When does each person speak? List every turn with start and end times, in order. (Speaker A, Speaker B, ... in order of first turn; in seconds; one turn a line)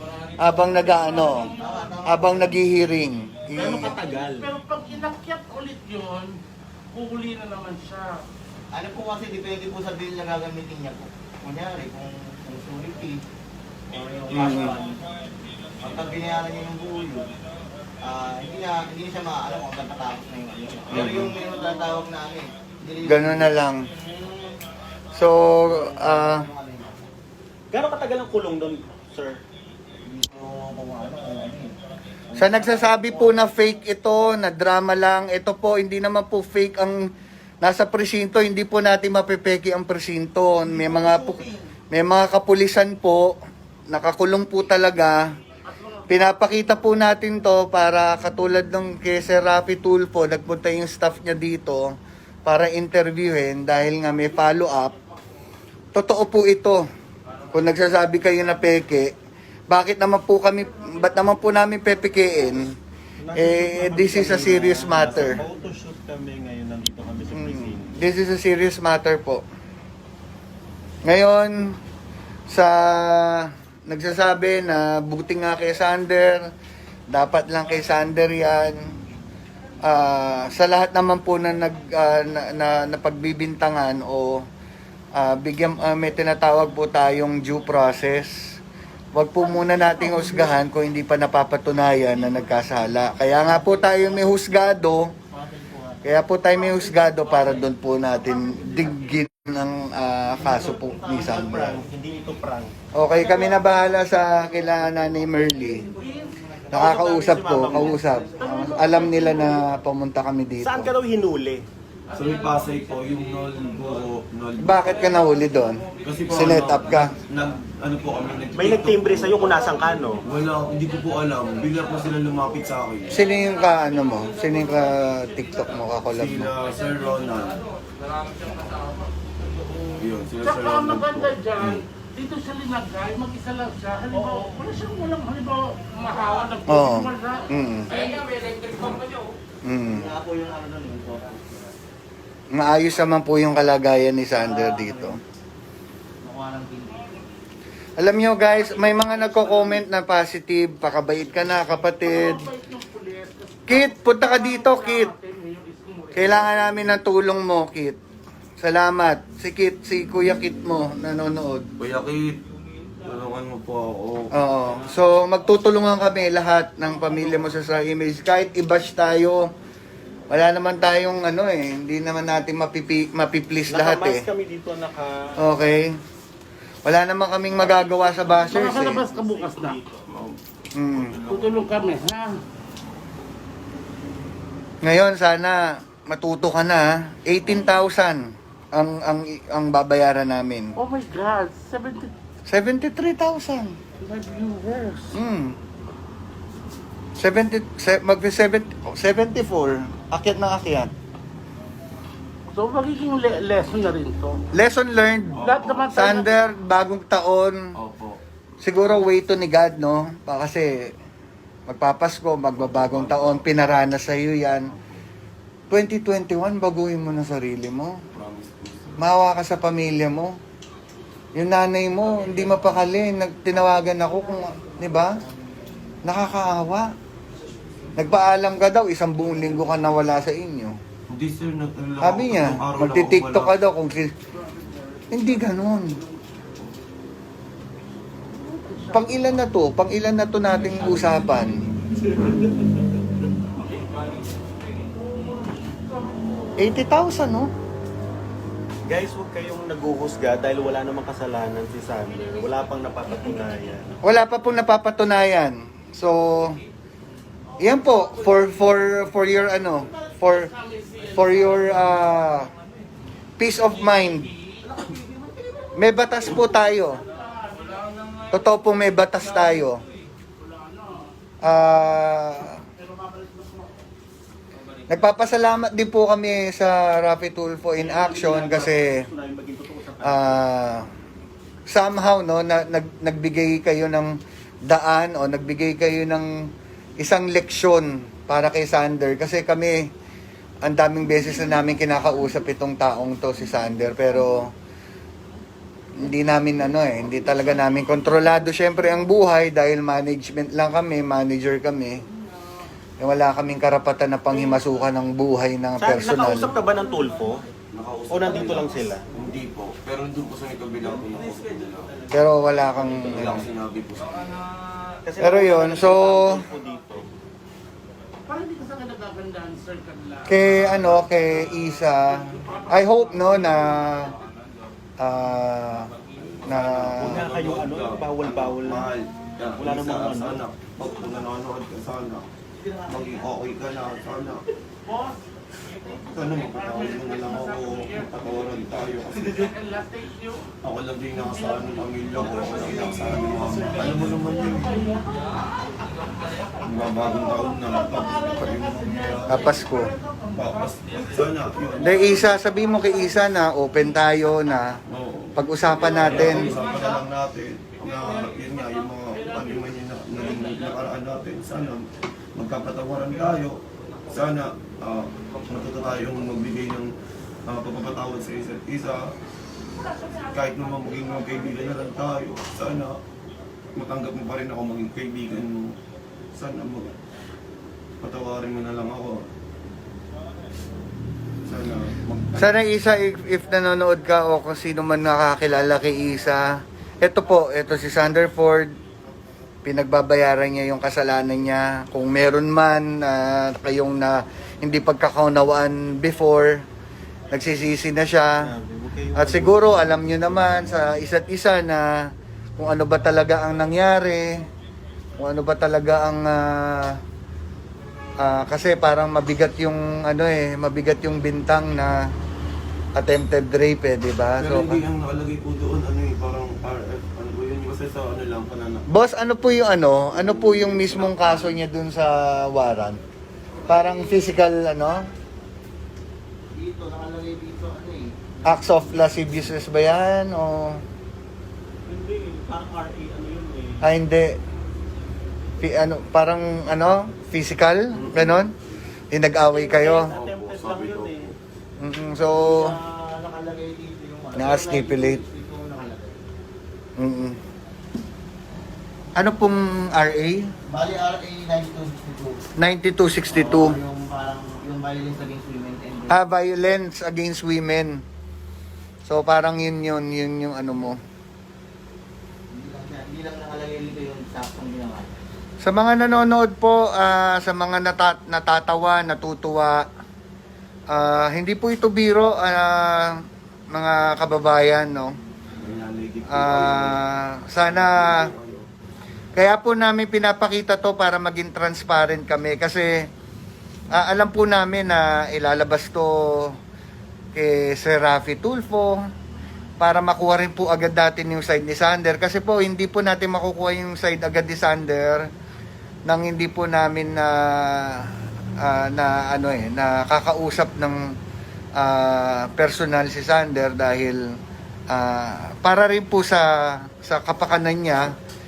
Speaker A: 0.4-1.5
Speaker B: 1.0-1.7
Speaker C: 1.5-2.8
Speaker A: 2.1-3.9
Speaker D: 3.5-4.5
Speaker B: 4.2-6.4
Speaker B: 6.9-8.2
Speaker C: 8.7-13.2
Speaker C: 13.9-15.0
Speaker A: 14.3-14.8
Speaker C: 15.8-17.3
Speaker C: 18.0-24.6
Speaker A: 20.9-21.3
Speaker A: 23.0-23.8
Speaker A: 25.1-26.4
Speaker C: 25.6-27.0
Speaker D: 27.7-29.4
Speaker C: 30.0-31.7
Speaker C: 32.3-33.5
Speaker A: 32.4-37.0
Speaker A: 37.6-43.3
Speaker C: 40.8-41.5
Speaker A: 43.9-45.2
Speaker B: 45.7-46.4
Speaker A: 46.1-51.9
Speaker A: 52.4-55.0
Speaker A: 55.9-56.8
Speaker A: 57.5-59.1
Speaker A: 59.7-62.7
Speaker D: 63.2-67.9
Speaker A: 63.3-65.4
Speaker A: 67.3-69.4
Speaker A: 71.0-71.8
Speaker A: 72.5-76.4
Speaker A: 77.1-78.8
Speaker A: 79.8-84.4
Speaker A: 85.1-88.3
Speaker A: 89.1-95.1
Speaker C: 93.6-94.3
Speaker C: 95.3-96.0
Speaker A: 96.0-101.8
Speaker B: 96.8-97.6
Speaker C: 100.4-101.7
Speaker D: 101.3-102.7
Speaker A: 102.9-105.8
Speaker B: 103.2-103.7
Speaker C: 105.4-108.4
Speaker B: 106.0-106.4
Speaker D: 106.7-108.1
Speaker A: 106.7-110.9
Speaker B: 108.4-109.7
Speaker D: 110.6-111.6
Speaker E: 112.1-115.2
Speaker A: 114.6-117.1
Speaker E: 116.0-119.7
Speaker D: 118.5-120.2
Speaker E: 120.2-123.2
Speaker A: 123.1-126.5
Speaker F: 123.5-124.7
Speaker E: 126.1-127.6
Speaker F: 127.8-128.9
Speaker E: 130.0-131.8
Speaker B: 130.4-137.5
Speaker D: 134.2-134.6
Speaker A: 136.7-137.9
Speaker F: 137.9-139.3
Speaker A: 139.7-140.1
Speaker C: 139.9-141.7
Speaker A: 142.5-145.2
Speaker C: 144.4-145.2
Speaker C: 146.2-147.2
Speaker A: 148.0-152.5
Speaker B: 148.7-149.8
Speaker B: 152.0-156.4
Speaker A: 153.7-155.1
Speaker A: 156.1-158.0
Speaker A: 158.6-161.7
Speaker E: 161.8-162.4
Speaker E: 163.0-164.3
Speaker A: 164.3-169.5
Speaker A: 170.3-174.2
Speaker D: 173.7-175.4
Speaker A: 175.4-176.0
Speaker A: 176.8-179.1
Speaker D: 177.7-179.9
Speaker B: 178.5-179.8
Speaker E: 180.1-182.0
Speaker A: 180.7-181.2
Speaker B: 181.3-182.4
Speaker A: 184.8-190.7
Speaker B: 190.8-192.1
Speaker A: 192.5-193.8
Speaker B: 194.0-195.2
Speaker A: 195.1-195.6
Speaker A: 197.2-200.9
Speaker B: 202.5-204.4
Speaker A: 204.5-207.6
Speaker E: 205.3-205.9
Speaker B: 205.4-206.3
Speaker E: 207.8-208.2
Speaker A: 208.6-210.9
Speaker A: 211.7-214.7
Speaker E: 212.6-213.5
Speaker A: 215.7-217.9
Speaker E: 218.1-219.1
Speaker A: 219.0-220.3
Speaker A: 221.3-225.1
Speaker A: 226.0-226.9
Speaker A: 227.9-230.7
Speaker E: 231.1-233.6
Speaker A: 232.0-234.1
Speaker B: 234.5-235.3
Speaker A: 235.1-236.0
Speaker B: 238.3-239.2
Speaker A: 238.9-241.6
Speaker B: 245.0-246.7
Speaker A: 246.6-247.5
Speaker D: 248.8-254.0
Speaker B: 252.1-253.4
Speaker A: 254.0-256.6
Speaker B: 257.6-258.7
Speaker A: 257.6-260.5
Speaker B: 259.8-262.0
Speaker A: 261.1-262.5
Speaker A: 263.4-264.3
Speaker A: 265.8-267.0
Speaker B: 266.0-267.7
Speaker F: 267.8-268.4
Speaker A: 268.3-269.8
Speaker B: 270.4-271.1
Speaker A: 271.4-272.6
Speaker B: 272.8-273.8
Speaker A: 274.9-279.0
Speaker D: 277.8-280.3
Speaker A: 280.0-280.9
Speaker A: 281.7-286.3
Speaker A: 287.0-289.8
Speaker A: 290.6-294.5
Speaker A: 295.9-302.0
Speaker A: 303.0-306.5
Speaker D: 305.8-307.4
Speaker E: 307.7-311.9
Speaker D: 308.1-309.0
Speaker D: 311.1-312.1
Speaker A: 312.1-313.5
Speaker E: 312.9-314.4
Speaker D: 315.1-317.0
Speaker A: 315.2-316.4
Speaker B: 318.3-320.9
Speaker A: 320.2-324.1
Speaker B: 322.5-323.2
Speaker F: 323.2-324.1
Speaker A: 325.0-325.9
Speaker E: 326.2-332.3
Speaker A: 326.4-327.3
Speaker D: 327.0-328.9
Speaker D: 329.6-330.4
Speaker C: 332.6-333.3
Speaker E: 332.9-334.5
Speaker B: 334.8-338.3
Speaker E: 335.9-339.6
Speaker B: 339.4-340.5
Speaker E: 340.6-344.8
Speaker B: 341.2-345.3
Speaker E: 346.6-349.6
Speaker B: 346.7-351.3
Speaker A: 349.3-349.9
Speaker E: 350.3-352.4
Speaker A: 351.8-354.8
Speaker B: 352.5-353.1
Speaker E: 354.9-366.9
Speaker A: 355.4-356.5
Speaker E: 367.4-369.1
Speaker E: 370.3-373.0
Speaker E: 373.7-375.8
Speaker E: 376.3-376.9
Speaker E: 378.0-379.3
Speaker E: 381.4-382.5
Speaker A: 382.4-386.4
Speaker A: 387.0-388.7
Speaker A: 389.6-396.6
Speaker A: 397.3-398.4
Speaker D: 398.4-400.0
Speaker A: 399.1-404.4
Speaker A: 405.2-407.0
Speaker A: 408.2-412.0
Speaker A: 412.9-414.8
Speaker E: 414.4-418.9
Speaker A: 418.9-423.0
Speaker E: 420.1-421.6
Speaker C: 423.6-424.3
Speaker A: 423.7-425.0
Speaker C: 426.5-429.2
Speaker A: 428.4-430.8
Speaker D: 431.9-433.8
Speaker A: 433.8-434.4
Speaker A: 435.6-438.5
Speaker E: 437.9-438.5
Speaker A: 439.1-440.1
Speaker D: 439.5-441.3
Speaker E: 440.1-441.4
Speaker A: 441.8-442.7
Speaker C: 442.9-446.2
Speaker A: 444.3-445.2
Speaker A: 447.0-447.4
Speaker A: 449.1-450.5
Speaker C: 450.7-452.4
Speaker A: 452.6-453.8
Speaker C: 453.3-456.2
Speaker A: 456.1-458.0
Speaker A: 459.1-461.0
Speaker C: 462.5-465.2
Speaker A: 465.6-469.9
Speaker A: 470.9-473.2
Speaker A: 473.7-475.1
Speaker E: 475.6-477.0
Speaker A: 476.3-478.3
Speaker E: 477.6-478.6
Speaker A: 479.4-483.1
Speaker A: 483.9-486.5
Speaker A: 487.3-489.0
Speaker A: 489.8-495.2
Speaker A: 496.1-501.1
Speaker A: 501.8-504.2
Speaker A: 504.9-508.1